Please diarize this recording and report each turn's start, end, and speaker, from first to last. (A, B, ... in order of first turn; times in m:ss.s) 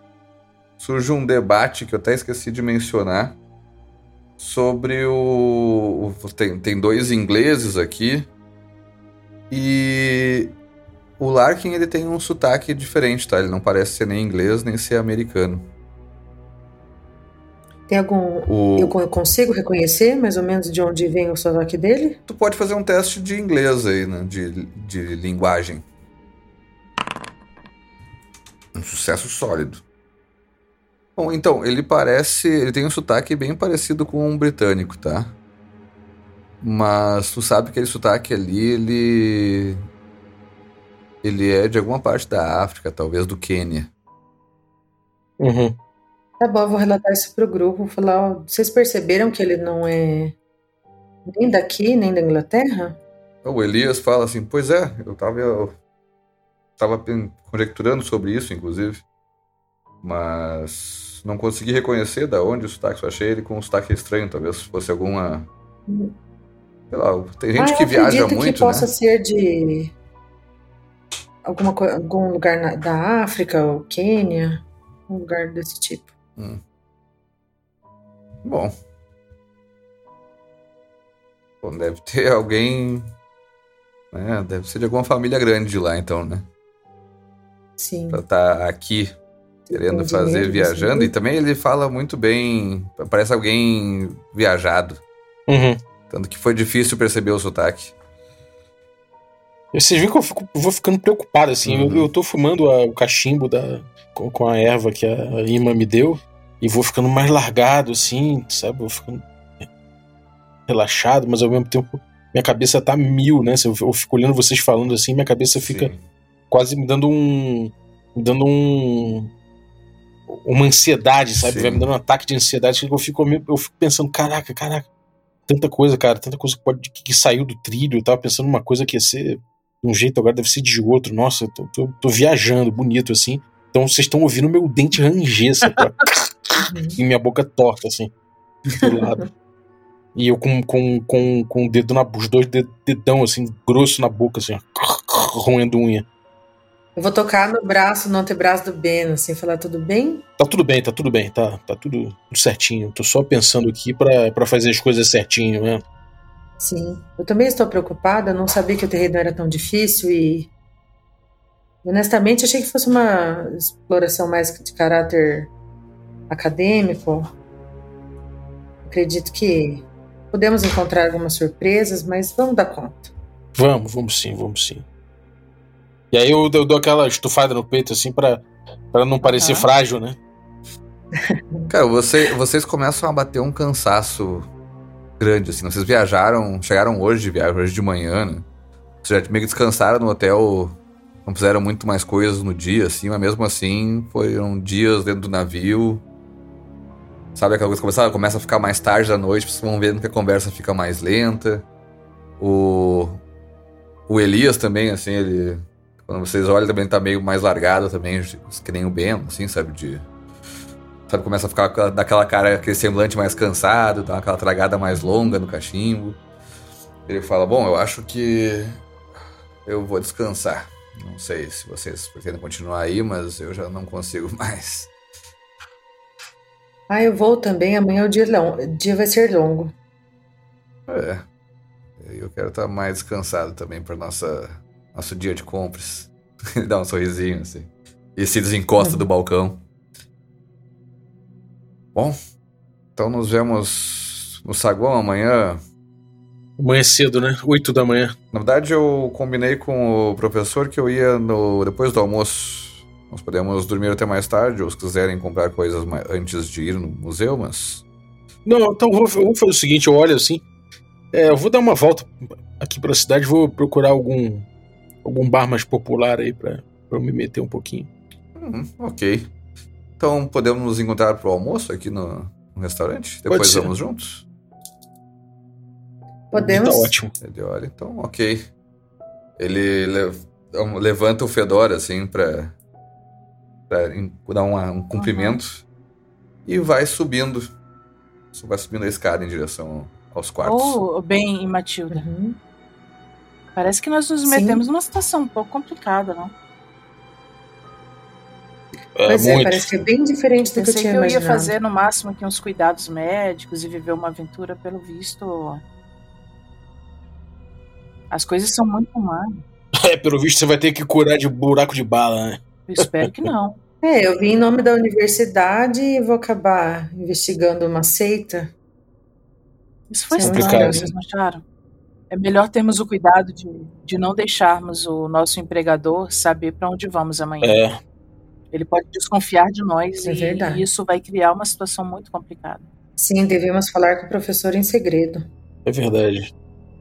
0:00.8-0:03.4 A
0:04.4-0:08.3 A
0:09.5-0:10.6 A
0:11.2-0:15.7 A
0:17.9-0:22.2 B
0:18.5-0:19.0 A
0:22.3-0:25.8 A
0:28.8-0:29.8 A
0:31.2-0:35.4 A
0:36.6-0:39.8 A
0:41.2-0:43.9 A
0:45.4-0:45.8 C
0:46.4-0:50.4 B
0:51.3-0:53.0 B
0:53.4-0:55.8 A
0:56.8-0:59.0 A
1:00.0-1:05.5 A
1:05.9-1:06.2 B
1:06.9-1:08.9 A
1:07.6-1:09.9 B
1:11.4-1:16.1 B
1:16.4-1:16.6 A
1:18.4-1:18.8 A
1:21.6-1:23.1 A
1:24.1-1:26.5 A
1:27.8-1:28.2 B
1:28.1-1:29.2 A
1:29.7-1:31.1 B
1:29.7-1:35.0 A
1:35.5-1:35.8 C
1:36.1-1:37.9 A
1:39.7-1:49.6 C
1:41.7-1:42.1 A
1:50.7-1:55.9 C
1:55.6-1:56.0 A
1:56.5-1:59.3 C
2:00.3-2:04.9 C
2:01.4-2:01.9 A
2:05.5-2:18.1 C
2:16.7-2:17.0 B
2:18.6-2:19.3 C
2:20.2-2:26.1 C
2:27.0-2:30.2 B
2:30.4-2:35.8 C
2:36.6-2:40.5 B
2:41.8-2:45.5 B
2:46.3-2:47.3 B
2:48.8-2:53.1 B
2:53.6-2:54.8 C
2:56.1-3:00.2 C
2:59.2-2:59.7 D
3:01.1-3:01.7 B
3:01.7-3:04.5 A
3:05.2-3:08.5 A
3:09.0-3:16.0 A
3:17.4-3:21.7 A
3:22.4-3:23.2 A
3:24.1-3:30.1 A
3:31.1-3:36.2 A
3:37.1-3:38.8 A
3:39.6-3:44.9 A
3:46.9-3:49.8 B
3:50.9-3:51.2 A
3:52.0-3:59.6 A
3:58.8-3:59.1 B
4:03.0-4:05.6 A
4:06.6-4:08.2 C
4:08.3-4:17.8 A
4:18.5-4:20.4 C
4:21.1-4:24.5 C
4:25.0-4:27.9 C
4:28.4-4:29.3 A
4:30.0-4:34.3 A
4:33.3-4:33.7 C
4:36.3-4:37.0 B
4:36.3-4:37.1 C
4:37.2-4:38.5 A
4:39.4-4:42.6 A
4:43.7-4:45.6 A
4:45.0-4:45.4 D
4:46.4-4:47.5 A
4:48.3-4:50.8 A
4:50.4-4:52.0 D
4:51.9-4:52.4 B
4:53.6-4:56.3 D
4:54.2-4:54.6 B
4:59.0-4:59.7 C
4:59.1-5:01.6 B
5:00.6-5:05.6 D
5:08.1-5:09.4 D
5:09.8-5:13.3 C
5:12.7-5:13.6 D
5:13.8-5:18.5 B
5:19.9-5:21.4 D
5:20.2-5:20.9 B
5:20.2-5:20.9 C
5:22.1-5:27.6 D
5:27.4-5:27.8 C
5:28.5-5:32.7 D
5:30.0-5:30.7 B
5:33.0-5:35.3 B
5:35.7-5:36.3 C